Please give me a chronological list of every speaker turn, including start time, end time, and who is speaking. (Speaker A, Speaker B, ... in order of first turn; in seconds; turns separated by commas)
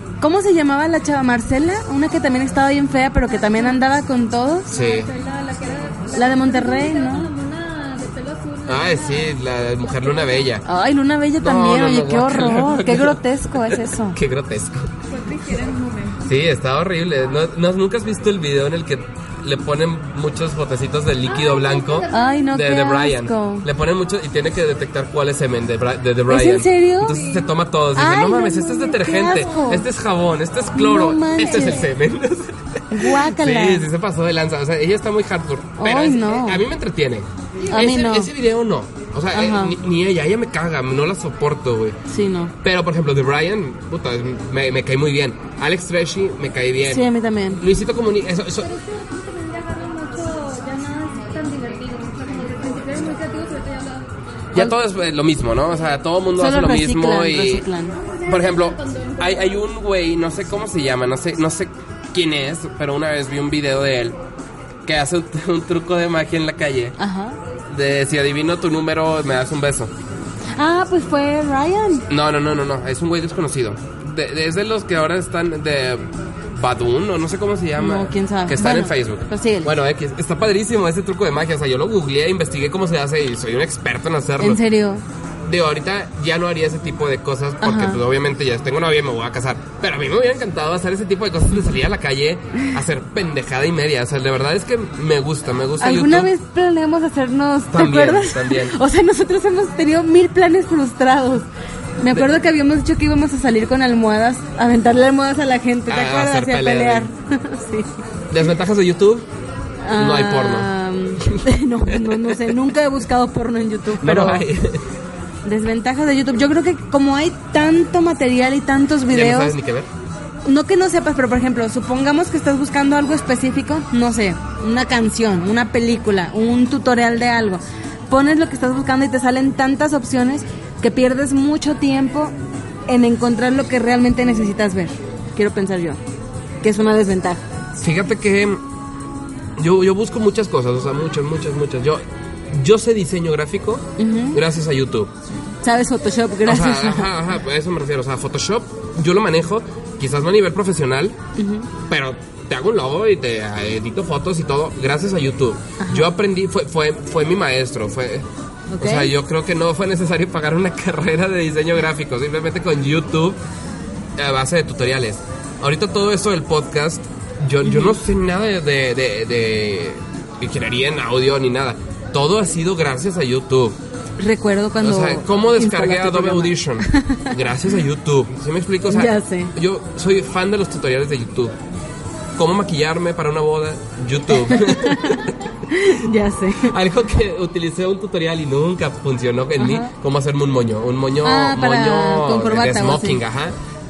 Speaker A: 0.2-4.7, Speaker B: 3.3-3.8, Speaker C: 4.7-5.1, Speaker B: 4.7-10.6, Speaker A: 6.1-7.3, Speaker C: 8.7-10.6, Speaker A: 10.6-14.2, Speaker C: 11.4-14.9, Speaker B: 15.1-16.2, Speaker C: 16.2-42.0, Speaker B: 21.3-22.5, Speaker A: 22.1-23.6, Speaker A: 26.3-27.2, Speaker B: 27.1-27.4, Speaker A: 27.9-29.9, Speaker B: 29.2-29.8, Speaker A: 30.7-31.9, Speaker B: 31.4-31.9, Speaker A: 32.9-33.9, Speaker A: 35.8-36.6, Speaker A: 37.7-38.3, Speaker A: 39.3-39.8, Speaker A: 42.1-42.5, Speaker C: 42.6-48.7, Speaker A: 46.9-47.6, Speaker B: 48.6-54.1, Speaker C: 54.5-57.7, Speaker A: 56.3-58.0, Speaker B: 58.1-59.6, Speaker C: 58.3-64.2, Speaker C: 64.8-67.0, Speaker A: 67.0-67.4, Speaker C: 67.7-69.9, Speaker A: 70.5-72.1, Speaker C: 72.1-84.6, Speaker A: 77.8-79.7, Speaker A: 84.4-85.0, Speaker C: 85.5-96.3, Speaker A: 87.6-88.0, Speaker A: 95.8-101.5, Speaker C: 97.7-98.8, Speaker A: 102.0-107.9, Speaker C: 105.9-107.1, Speaker C: 108.3-109.3, Speaker A: 109.8-114.5, Speaker C: 109.9-112.7, Speaker C: 114.0-114.8, Speaker A: 115.4-119.6, Speaker C: 119.1-119.9, Speaker A: 120.4-132.3, Speaker A: 132.9-136.0, Speaker A: 136.6-137.4, Speaker C: 137.8-138.6, Speaker C: 139.6-145.1, Speaker A: 144.0-144.4, Speaker A: 145.6-147.1, Speaker C: 146.4-151.2, Speaker A: 151.3-151.7, Speaker C: 151.9-158.3, Speaker A: 155.8-156.1, Speaker A: 158.7-159.1, Speaker C: 158.8-163.4, Speaker C: 164.2-173.8, Speaker A: 167.6-167.9, Speaker A: 174.2-177.3, Speaker C: 174.8-181.5, Speaker A: 178.9-179.5, Speaker C: 182.3-185.4, Speaker A: 184.4-186.7, Speaker C: 186.6-193.6, Speaker A: 189.6-189.9, Speaker A: 191.2-193.2